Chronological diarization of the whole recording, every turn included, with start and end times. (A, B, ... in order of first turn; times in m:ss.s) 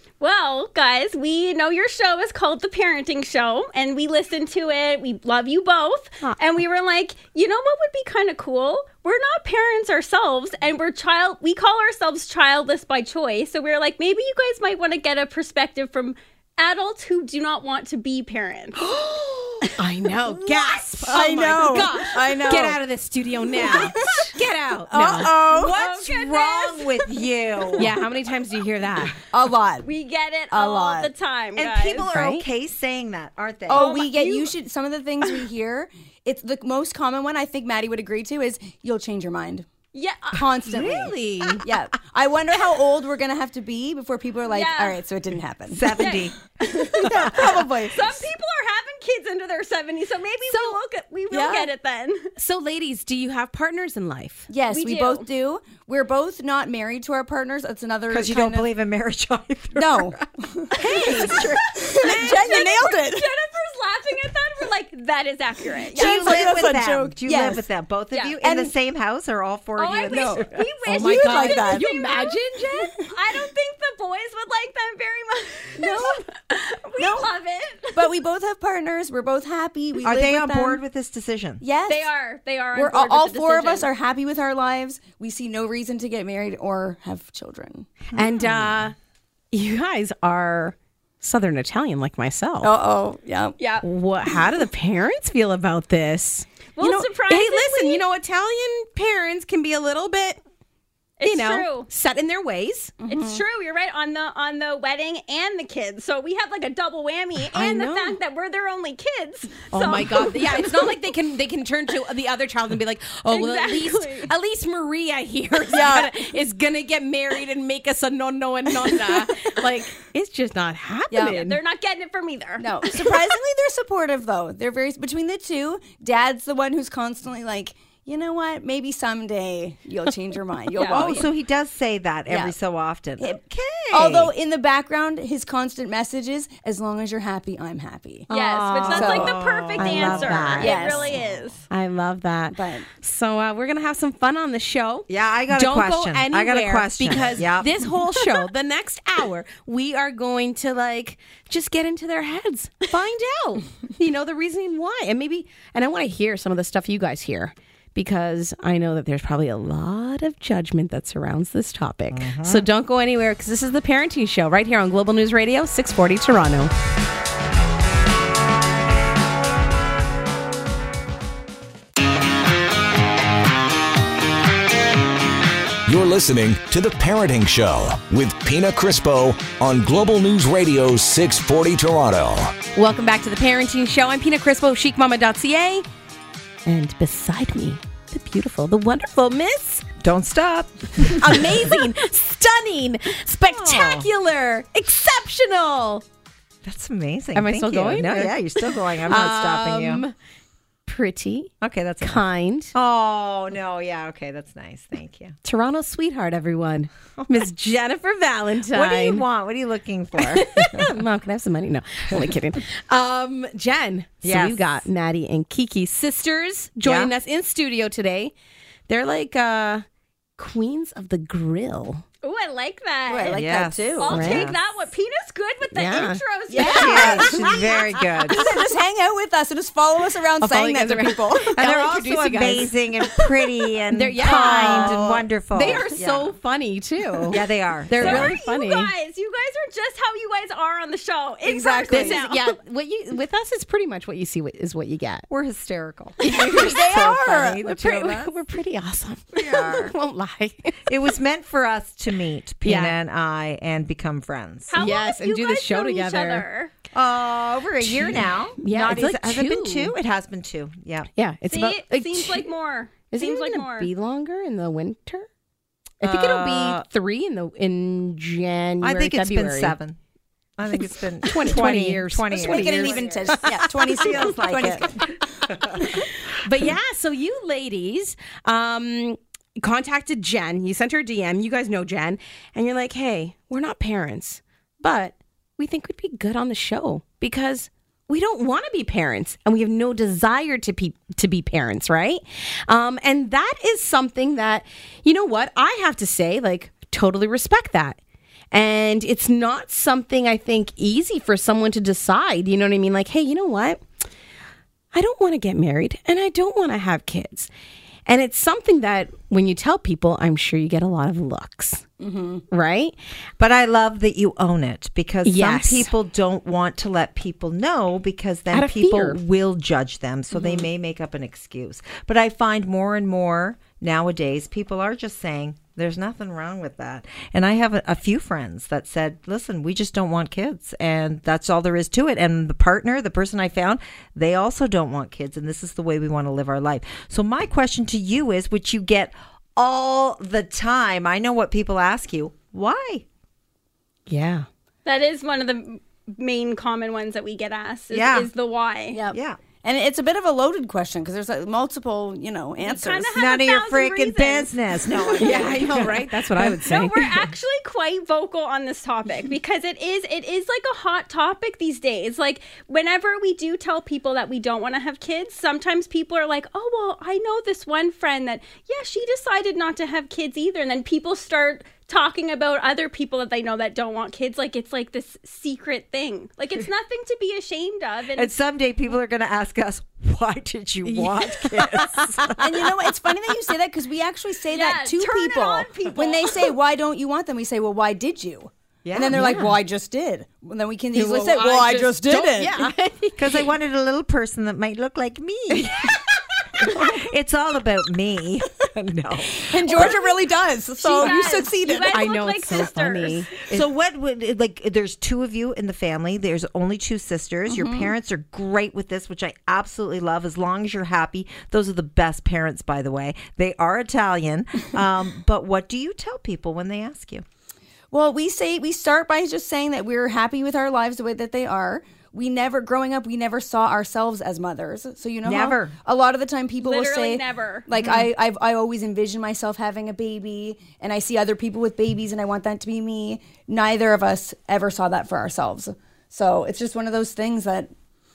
0:00.2-0:18.8 A
0:18.8-0:19.7 B
0:19.8-0:25.3 C
0:21.0-0:22.8 B
0:23.5-0:24.3 B
0:24.9-0:25.7 B
0:25.0-0:27.9 D
0:25.4-0:27.2 A
0:27.8-0:29.2 C
0:29.3-0:29.9 B
0:29.8-0:32.1 A
0:30.5-0:31.1 B
0:31.6-0:33.8 D
0:32.1-0:32.4 C
0:33.7-0:39.6 B
0:33.7-0:34.5 A
0:39.9-0:40.5 A
0:40.3-0:46.0 B
0:40.6-0:41.6 C
0:44.5-0:45.0 A
0:45.7-0:46.3 D
0:45.9-0:52.3 A
0:46.6-0:48.3 B
0:47.1-0:47.4 D
0:50.5-0:50.8 C
0:51.3-0:51.7 B
0:52.4-0:54.5 C
0:54.5-0:58.7 B
0:54.7-0:55.3 A
0:58.1-1:01.8 D
0:59.8-1:03.3 B
1:00.8-1:01.5 C
1:01.0-1:06.6 A
1:05.8-1:07.6 B
1:05.9-1:10.7 D
1:08.1-1:08.4 A
1:08.4-1:08.7 B
1:09.8-1:18.1 A
1:10.1-1:10.4 B
1:10.8-1:13.0 C
1:11.0-1:11.8 B
1:15.8-1:16.2 B
1:17.0-1:17.3 B
1:17.9-1:20.8 B
1:20.0-1:21.6 D
1:21.6-1:22.1 B
1:21.9-1:23.9 A
1:22.7-1:27.9 B
1:28.1-1:28.8 D
1:28.1-1:28.9 C
1:29.5-1:32.7 C
1:32.6-1:33.6 B
1:33.6-1:33.8 A
1:33.8-1:40.4 C
1:36.8-1:38.0 A
1:41.2-1:41.9 A
1:41.2-1:42.9 C
1:43.0-1:43.4 B
1:43.1-1:50.7 A
1:47.5-1:48.2 C
1:49.7-2:01.6 C
1:53.3-1:54.3 A
1:55.7-1:56.1 B
2:01.1-2:01.4 B
2:01.2-2:03.2 A
2:02.6-2:11.3 B
2:10.7-2:11.1 A
2:10.8-2:14.3 D
2:13.9-2:18.3 B
2:18.3-2:19.0 C
2:18.3-2:21.6 A
2:18.7-2:21.4 D
2:18.9-2:19.4 B
2:19.8-2:20.8 C
2:20.6-2:21.2 B
2:21.7-2:46.7 C
2:22.5-2:22.8 B
2:25.1-2:27.8 D
2:42.1-2:42.6 D
2:55.8-3:02.6 E
3:02.7-3:05.8 C
3:06.6-3:09.8 C
3:10.0-3:11.6 D
3:11.1-3:16.0 C
3:13.4-3:14.1 D
3:16.6-3:20.0 D
3:17.3-3:20.1 C
3:20.8-3:22.7 C
3:21.6-3:25.3 D
3:25.4-3:29.2 C
3:27.2-3:27.5 D
3:28.7-3:30.9 D
3:30.2-3:38.3 C
3:34.2-3:34.7 D
3:36.8-3:37.1 D
3:38.9-3:39.8 C
3:40.4-3:42.0 C
3:42.2-3:43.4 A
3:43.1-3:44.2 B
3:43.3-3:44.6 D
3:43.9-3:47.6 A
3:44.1-3:44.5 C
3:45.7-3:47.3 C
3:46.5-3:47.6 B
3:46.6-3:48.5 D
3:48.3-3:51.6 B
3:50.4-3:52.7 C
3:51.5-3:56.3 D
3:53.9-3:58.9 C
3:54.2-3:55.0 B
3:57.3-3:58.4 D
3:58.0-4:02.5 A
4:01.5-4:02.2 B
4:01.9-4:05.2 C
4:05.3-4:08.3 D
4:06.2-4:10.8 C
4:06.3-4:07.6 B
4:09.3-4:09.9 D
4:10.9-4:14.8 D
4:12.6-4:13.0 C
4:14.7-4:16.7 A
4:14.8-4:16.4 C
4:16.9-4:21.1 D
4:17.8-4:19.9 C
4:21.2-4:22.5 C
4:21.5-4:23.9 A
4:23.1-4:25.3 C
4:26.0-4:29.8 C
4:26.0-4:26.8 D
4:28.8-4:30.0 D
4:30.6-4:36.0 D
4:31.2-4:33.8 C
4:32.3-4:35.1 B
4:36.4-4:58.0 C
4:58.5-5:03.8 C
5:04.9-5:07.5 C
5:08.0-5:11.8 C
5:12.0-5:12.4 B
5:12.5-5:12.9 C
5:13.4-5:43.0 D
5:15.2-5:15.9 C
5:18.5-5:19.2 C
5:44.1-5:44.4 C
5:44.8-5:49.0 A
5:47.9-5:48.3 D
5:48.9-5:53.1 B
5:49.1-5:49.4 D
5:52.6-5:55.7 A
5:53.1-5:56.6 D
5:55.2-5:57.2 C
5:56.6-6:18.3 A
6:18.1-6:22.7 D
6:20.8-6:22.3 C
6:22.4-6:32.7 B
6:24.5-6:26.5 A
6:28.8-6:29.4 D
6:29.1-6:29.5 C
6:30.9-6:33.5 C
6:33.2-6:36.0 D
6:36.6-6:40.0 D
6:39.3-6:42.0 B
6:39.7-6:40.1 A
6:40.7-6:43.3 A
6:41.9-6:43.3 C
6:43.5-6:57.2 D
6:47.5-6:47.9 B
6:57.9-7:17.7 B
7:05.2-7:05.7 D
7:06.6-7:07.6 A
7:07.8-7:08.1 D